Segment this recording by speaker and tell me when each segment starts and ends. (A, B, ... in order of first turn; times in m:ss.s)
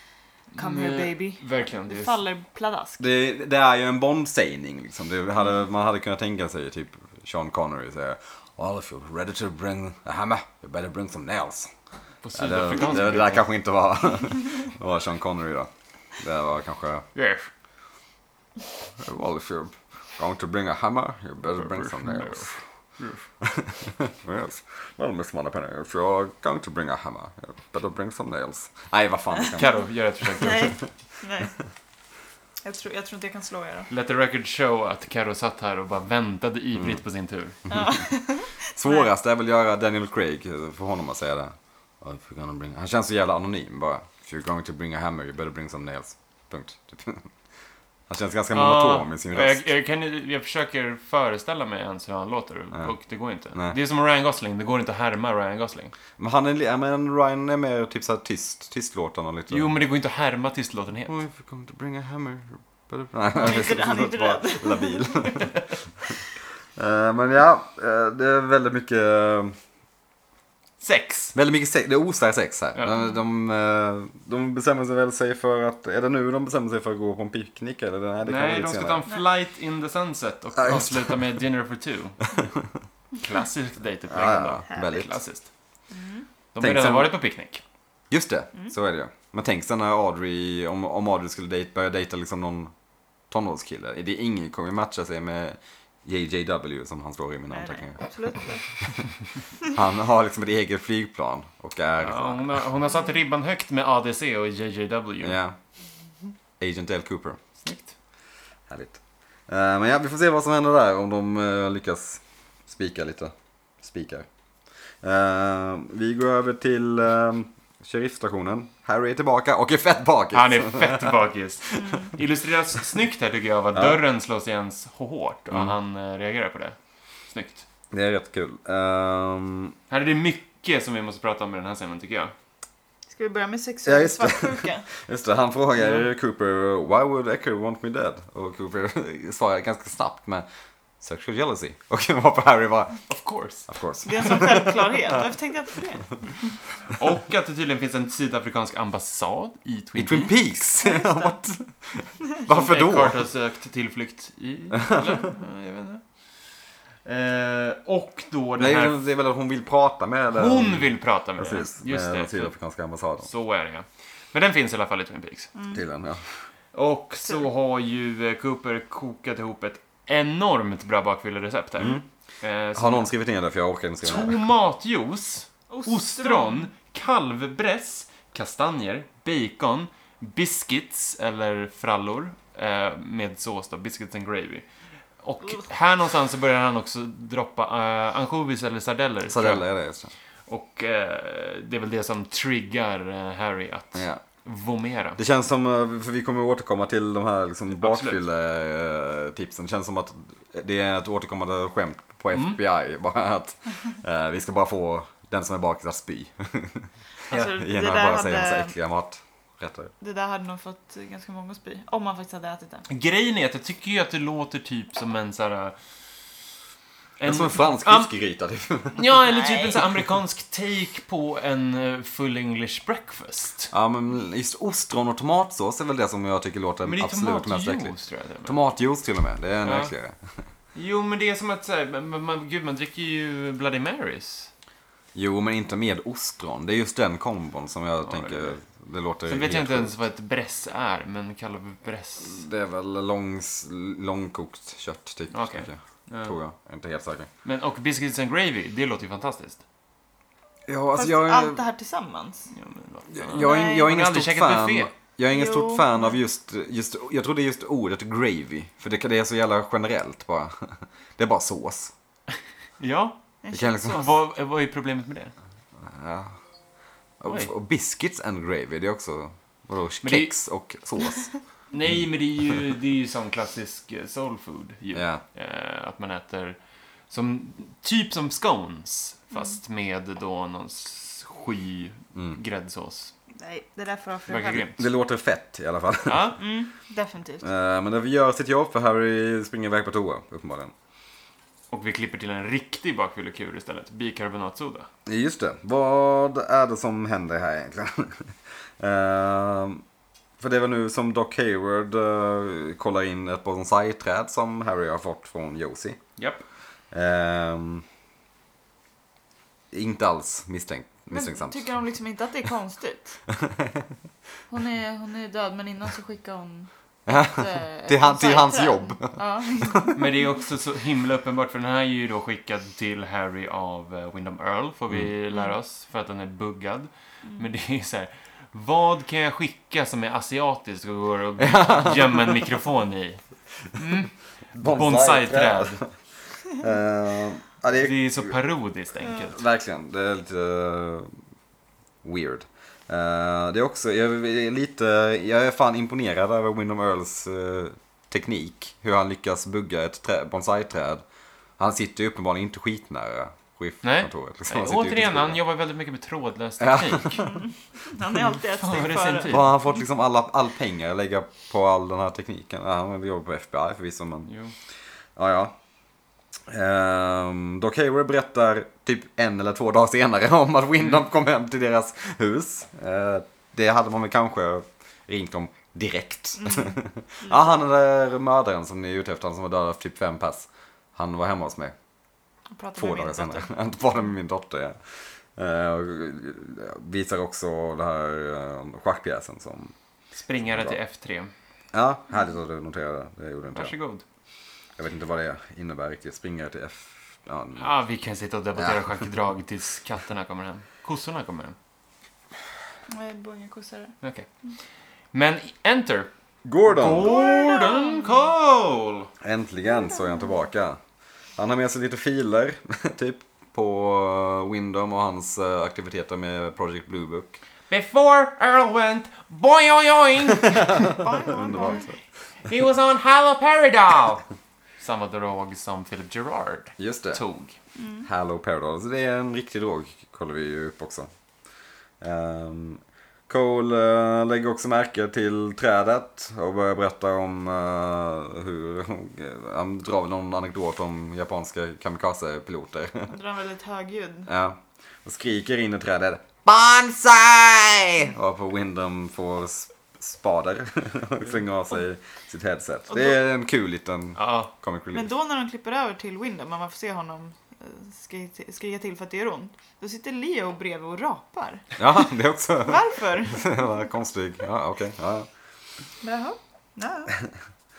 0:00.5-0:02.2 A
0:00.6-0:03.0 B
0:03.0-0:11.7 C
0:12.2-0:13.4 A
0:12.3-0:17.0 C
0:17.1-0:17.5 A
0:19.0-0:22.6 C
0:21.5-0:23.3 A
0:23.4-0:29.8 C
0:29.6-0:30.8 A
0:30.3-0:31.5 B
0:30.4-0:30.7 C
0:32.6-0:33.9 B
0:33.9-0:37.6 A
0:37.7-0:38.0 C
0:37.7-0:39.0 B
0:38.6-0:47.3 C
0:48.1-0:49.6 C
0:48.5-0:55.9 A
0:56.2-0:59.7 C
0:59.5-1:01.1 A
1:01.1-1:05.6 C
1:03.3-1:05.4 B
1:06.8-1:09.6 C
1:10.8-1:11.3 A
1:11.3-1:19.0 C
1:18.2-1:22.3 A
1:20.6-1:21.2 C
1:23.2-1:25.5 A
1:24.1-1:25.2 C
1:25.9-1:26.3 B
1:26.5-1:27.6 A
1:26.6-1:27.1 C
1:28.1-1:32.7 C
1:33.3-1:38.0 C
1:37.5-1:38.7 B
1:39.7-1:42.6 C
1:42.0-1:45.4 A
1:45.2-1:45.6 C
1:46.6-1:47.4 C
1:47.6-1:47.9 A
1:48.7-1:54.2 C
1:55.0-2:01.2 C
2:00.3-2:06.8 A
2:01.8-2:02.1 B
2:03.7-2:04.0 C
2:05.5-2:05.8 C
2:07.3-2:07.6 A
2:07.9-2:09.7 C
2:09.9-2:12.3 A
2:13.1-2:14.8 B
2:13.8-2:20.4 C
2:15.8-2:16.1 A
2:21.0-2:23.0 C
2:23.1-2:23.7 A
2:23.7-2:25.2 C
2:24.0-2:26.5 B
2:26.9-2:30.4 A
2:30.0-2:33.2 C
2:30.8-2:31.3 B
2:32.4-2:36.0 A
2:34.7-2:35.2 C
2:37.0-2:39.0 A
2:38.6-2:43.3 C
2:40.3-2:42.5 A
2:43.2-2:45.5 A
2:45.5-2:45.8 B
2:45.7-2:46.3 C
2:46.7-2:53.1 A
2:51.8-2:52.0 C
2:52.7-2:54.4 C
2:54.0-3:04.6 A
2:55.7-2:56.7 B
3:05.2-3:09.6 A
3:09.3-3:10.1 C
3:10.5-3:15.2 A
3:13.9-3:14.2 C
3:15.2-3:29.9 C
3:17.8-3:18.2 A
3:22.3-3:22.6 A
3:27.3-3:28.7 B
3:30.0-3:32.8 B
3:32.9-3:35.7 A
3:37.2-3:38.1 A
3:37.2-3:39.1 C
3:38.9-3:43.7 A
3:39.2-3:39.8 B
3:43.7-3:47.9 C
3:46.8-3:48.6 A
3:48.4-3:50.2 C
3:49.6-3:49.9 A
3:50.7-3:54.5 A
3:55.1-3:59.9 C
3:58.0-3:58.6 A
3:59.2-4:02.4 A
4:02.2-4:07.3 C
4:05.3-4:06.4 A
4:07.4-4:09.6 A
4:10.7-4:11.6 C
4:10.9-4:12.5 B
4:12.5-4:14.9 A
4:13.1-4:21.9 C
4:13.3-4:13.9 B
4:15.3-4:16.2 B
4:22.8-4:23.2 A
4:23.4-4:23.9 B
4:23.5-4:24.1 C
4:23.7-4:25.3 A
4:25.8-4:26.3 C
4:27.2-4:31.3 C
4:27.2-4:27.5 A
4:30.0-4:30.3 A
4:31.7-4:36.6 A
4:34.9-4:35.2 C
4:37.1-4:43.1 A
4:39.3-4:39.6 B
4:43.3-4:44.6 B
4:44.3-4:44.8 A
4:44.5-4:46.3 C
4:46.0-4:46.4 A
4:46.4-4:47.5 B
4:47.4-4:50.7 C
4:51.7-4:54.9 A
4:55.0-4:59.8 C
5:00.4-5:06.0 C
5:06.2-5:06.4 A
5:06.9-5:07.8 C
5:09.7-5:11.7 C
5:11.1-5:13.2 B
5:13.3-5:13.9 C
5:14.5-5:20.0 B
5:17.1-5:20.0 C
5:19.9-5:33.2 A
5:31.4-5:32.4 C
5:33.7-5:35.8 A
5:34.5-5:35.9 C
5:36.5-5:38.3 C
5:37.7-5:39.4 A
5:39.2-5:41.1 C
5:42.0-5:51.0 C
5:51.6-5:55.4 C
5:53.8-5:57.3 A
5:56.6-5:57.3 C
5:57.2-5:59.4 B
5:58.6-5:59.5 A
5:59.2-6:04.3 C
6:04.3-6:04.5 A
6:05.2-6:05.6 C
6:06.5-6:21.7 C
6:16.4-6:17.5 B
6:22.5-6:23.5 B
6:22.8-6:24.8 C
6:25.4-6:29.7 C
6:30.2-6:31.3 A
6:30.4-6:30.8 C
6:31.7-6:33.7 C
6:33.5-6:34.0 A
6:34.8-6:37.7 C
6:37.6-6:41.6 A
6:38.6-6:38.9 C
6:42.9-6:43.9 B
6:44.0-6:44.3 A
6:45.1-6:46.1 A
6:46.4-6:47.2 C
6:46.6-6:49.1 A
6:47.0-6:48.2 B
6:49.2-6:50.8 C
6:49.7-6:50.4 B
6:51.4-6:57.4 C
6:57.7-7:00.9 A
7:00.4-7:02.0 C
7:00.8-7:01.9 B
7:02.4-7:04.2 A
7:04.8-7:07.6 A
7:06.8-7:07.2 C
7:07.8-7:08.1 B
7:08.0-7:11.1 C
7:12.0-7:23.1 C
7:23.1-7:24.3 B
7:24.3-7:35.1 C
7:32.9-7:33.2 B
7:34.2-7:34.5 A
7:34.9-7:42.1 B
7:41.8-7:45.3 C
7:42.6-7:43.7 B
7:46.0-7:47.1 B